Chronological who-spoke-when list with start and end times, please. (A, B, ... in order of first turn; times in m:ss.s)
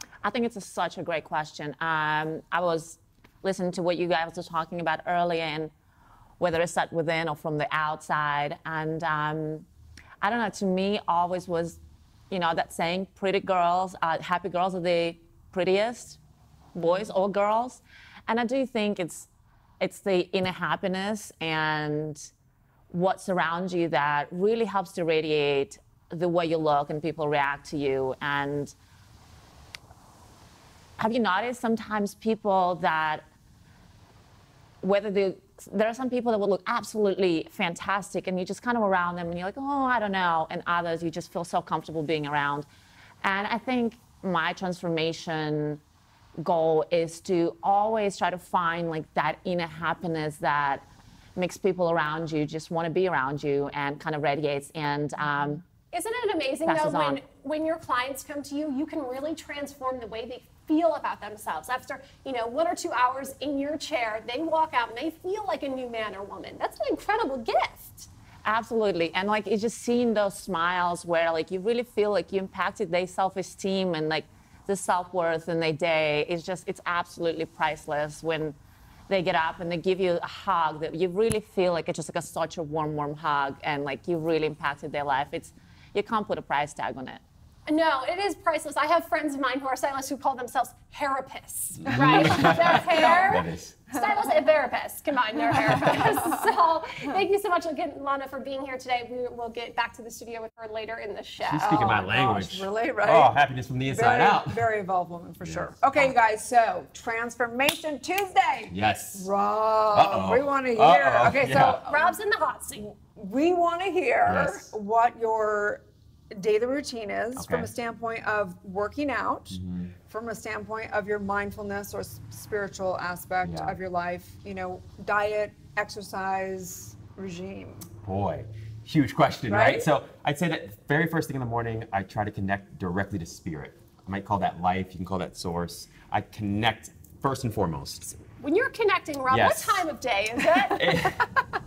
0:00.2-0:05.7 A
0:06.4-0:09.6 A
0:10.2-0:11.8 A
0:12.3-0:16.2 A
0:16.7-0:19.3 A
0:19.8-0:22.3 A
0:22.9-0:28.7 A
0:31.0-0:33.2 A
0:34.8-0:42.6 A
0:43.2-0:45.8 A
0:46.4-0:50.8 A
0:51.4-0:55.6 A
0:55.9-1:08.1 B
0:56.6-0:57.2 A
1:08.4-1:18.6 A
1:19.1-1:27.2 A
1:27.6-1:42.0 B
1:31.8-1:33.8 C
1:32.2-1:33.2 D
1:35.6-1:36.5 D
1:35.7-1:36.0 C
1:41.4-1:44.6 C
1:41.8-1:43.3 D
1:43.9-1:52.1 D
1:45.4-1:46.1 C
1:48.7-1:49.3 C
1:49.9-1:51.8 C
1:51.9-1:52.9 B
1:52.9-1:55.8 D
1:54.2-1:54.7 C
1:56.3-2:07.9 D
1:57.4-1:57.7 C
1:59.5-1:59.9 C
2:03.4-2:03.8 C
2:08.0-2:18.1 C
2:09.5-2:09.8 D
2:18.2-2:20.9 B
2:19.3-2:19.8 C
2:20.7-2:21.2 C